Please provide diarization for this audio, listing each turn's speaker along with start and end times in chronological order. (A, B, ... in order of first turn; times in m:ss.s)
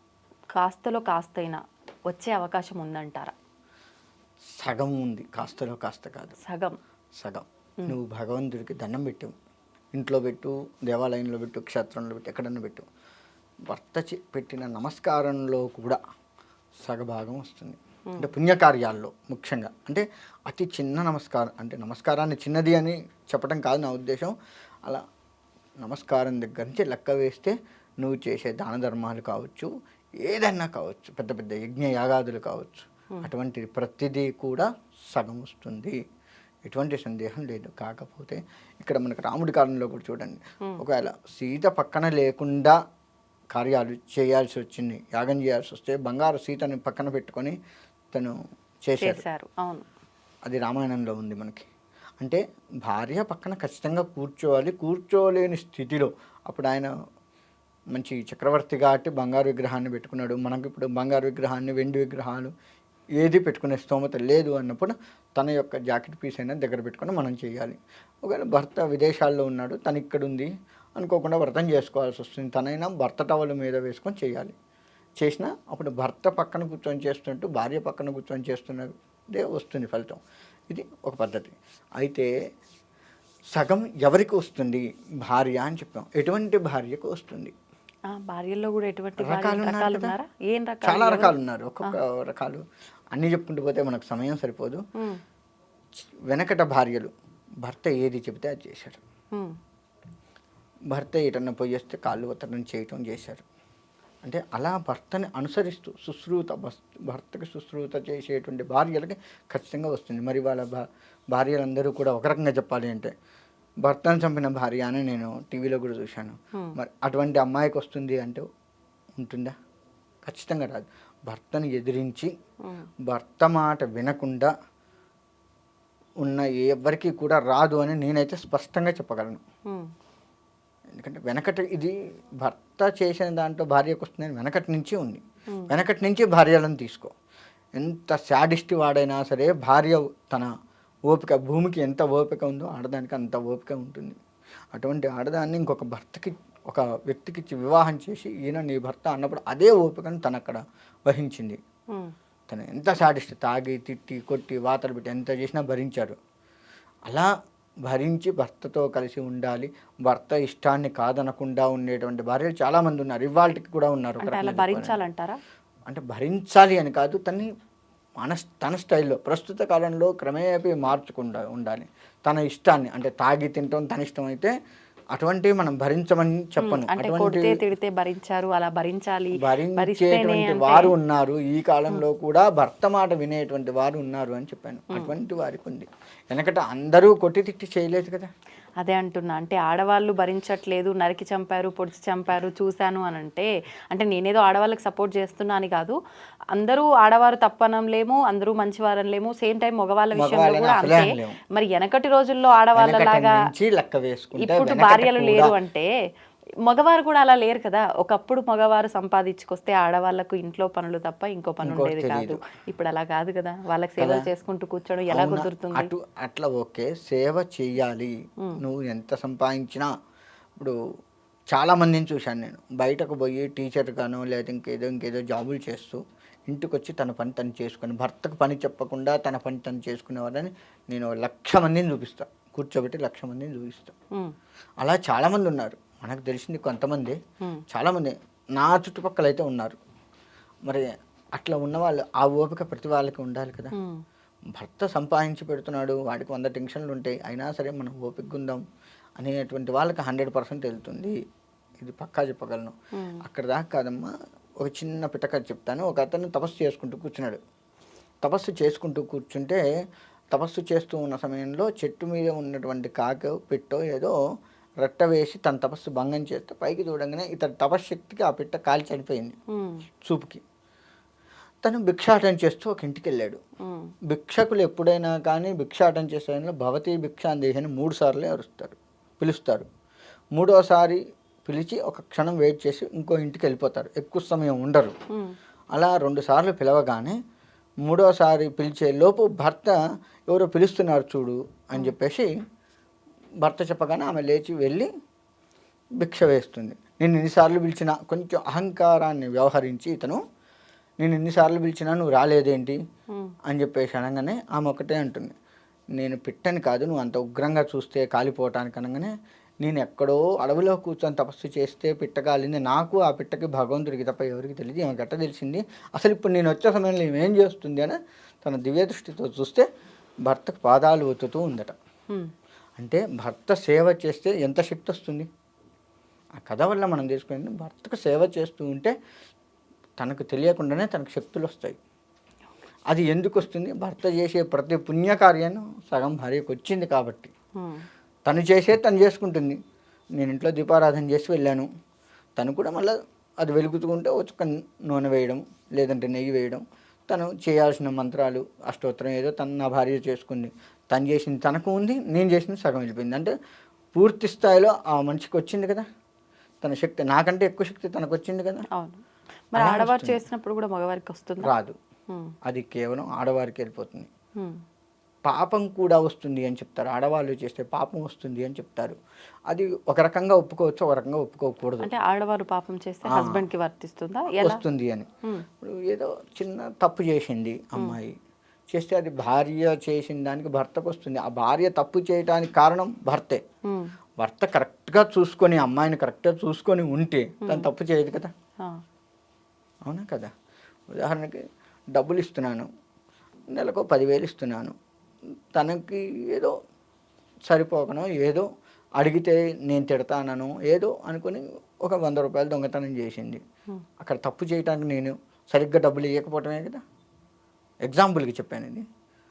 0:00.5-0:03.3 A
0:04.6-0:06.4 B
0:06.4-0:06.8 A
0:07.2-0:09.3 B
0:09.9-0:12.9 B
0:13.7-0:16.0 B
0:16.8-0:24.3 B
0:25.8-0:29.7 B
0:30.2-0:36.0 B
0:36.6-0:42.8 B
0:43.5-0:47.6 B
0:48.9-0:49.2 B
0:49.0-0:49.9 A
0:50.5-0:51.7 B
0:52.2-0:56.9 B
0:57.9-1:02.5 B
1:03.2-1:14.6 B
1:15.2-1:22.3 B
1:23.5-1:27.5 B
1:28.1-1:32.0 A
1:29.2-1:30.2 B
1:30.8-1:34.8 B
1:36.3-1:37.1 B
1:37.6-1:39.0 B
1:40.9-1:43.4 B
1:44.2-1:50.8 B
1:51.3-1:53.1 B
1:53.8-1:58.4 B
1:59.2-1:59.5 B
2:00.2-2:02.3 B
2:03.1-2:04.5 B
2:06.2-2:09.4 B
2:09.7-2:09.9 A
2:11.0-2:17.1 B
2:17.8-2:20.5 B
2:21.1-2:24.2 B
2:24.7-2:31.6 B
2:32.5-2:36.2 B
2:37.9-2:45.0 B
2:44.2-2:45.4 A
2:45.9-2:47.5 B
2:48.2-2:54.5 B
2:55.2-2:57.6 B
2:56.6-3:00.9 A
2:59.4-3:08.3 B
3:08.8-3:16.0 A
3:16.5-3:23.4 A
3:20.2-3:21.4 B
3:22.8-3:25.6 B
3:24.4-3:25.9 A
3:26.6-3:35.9 A
3:31.6-3:32.4 B
3:34.0-3:34.3 B
3:35.1-3:39.9 B
3:41.5-3:54.0 B
3:54.8-3:57.2 B
3:57.7-3:59.8 B
4:00.7-4:03.7 B
4:03.8-4:04.0 A
4:04.6-4:08.6 B
4:09.2-4:11.2 B
4:11.8-4:14.1 B
4:13.0-4:13.2 A
4:14.6-4:17.4 B
4:18.2-4:19.6 B
4:20.3-4:24.1 B
4:24.8-4:29.4 B
4:29.5-4:29.8 A
4:30.0-4:30.4 B
4:31.6-4:33.4 B
4:33.6-4:33.9 A
4:34.1-4:39.7 B
4:40.4-4:45.0 B
4:45.7-4:47.2 B
4:47.8-4:49.8 B
4:50.3-4:52.3 B
4:53.4-4:54.9 B
4:56.0-5:00.2 B
5:01.0-5:02.8 B
5:03.1-5:03.4 A
5:03.5-5:05.3 B
5:06.0-5:19.7 B
5:20.3-5:21.8 B
5:22.8-5:25.3 B
5:26.4-5:28.9 B
5:30.0-5:31.8 B
5:32.9-5:37.3 B
5:37.6-5:37.9 A
5:38.3-5:39.6 B
5:40.2-5:41.7 B
5:42.4-5:53.3 B
5:54.0-5:55.8 B
5:56.6-5:58.6 B
5:58.7-5:59.0 A
5:59.5-6:01.5 A
5:59.6-6:00.2 B
6:01.4-6:01.8 B
6:02.1-6:02.4 A
6:02.5-6:04.1 B
6:05.3-6:09.0 B
6:09.5-6:11.9 B
6:11.8-6:14.6 A
6:13.1-6:13.5 B
6:14.4-6:15.1 B
6:15.6-6:18.1 B
6:18.7-6:23.4 B
6:23.7-6:23.9 A
6:24.2-6:28.3 B
6:29.9-6:30.3 B
6:30.9-6:31.4 B
6:31.9-6:32.7 B
6:33.5-6:34.8 B
6:35.5-6:36.5 B
6:37.5-6:38.5 B
6:39.0-6:43.4 B
6:44.0-6:46.8 B
6:47.9-6:48.8 B